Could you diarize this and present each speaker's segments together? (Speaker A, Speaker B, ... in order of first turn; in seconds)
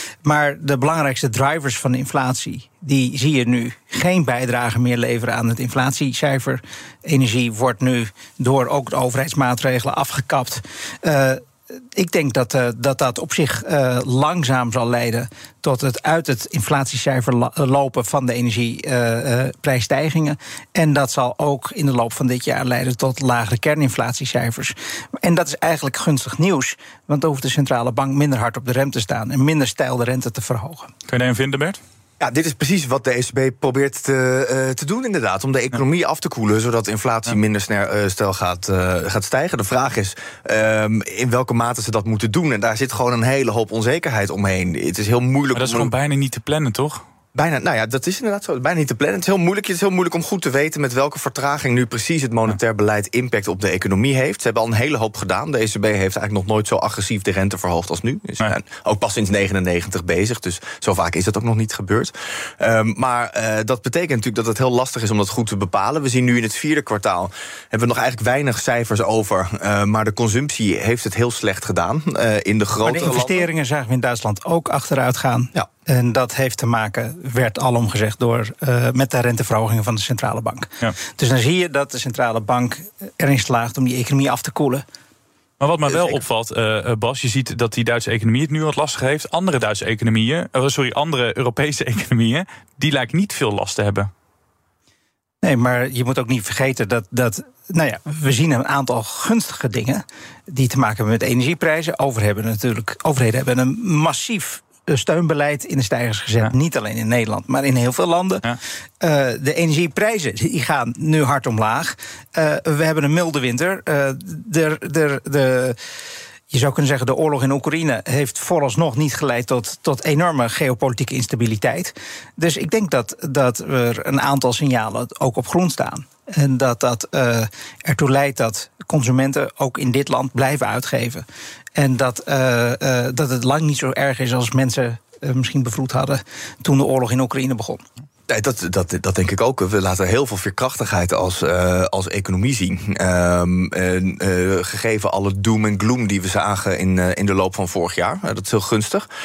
Speaker A: 0.2-30.9, 72.8-84.8, 95.4-108.5, 109.0-115.8, 116.5-137.8
Speaker B: 31.1-31.8, 45.5-47.0, 85.6-94.1
Speaker C: 32.2-45.9, 47.3-73.5, 138.3-149.1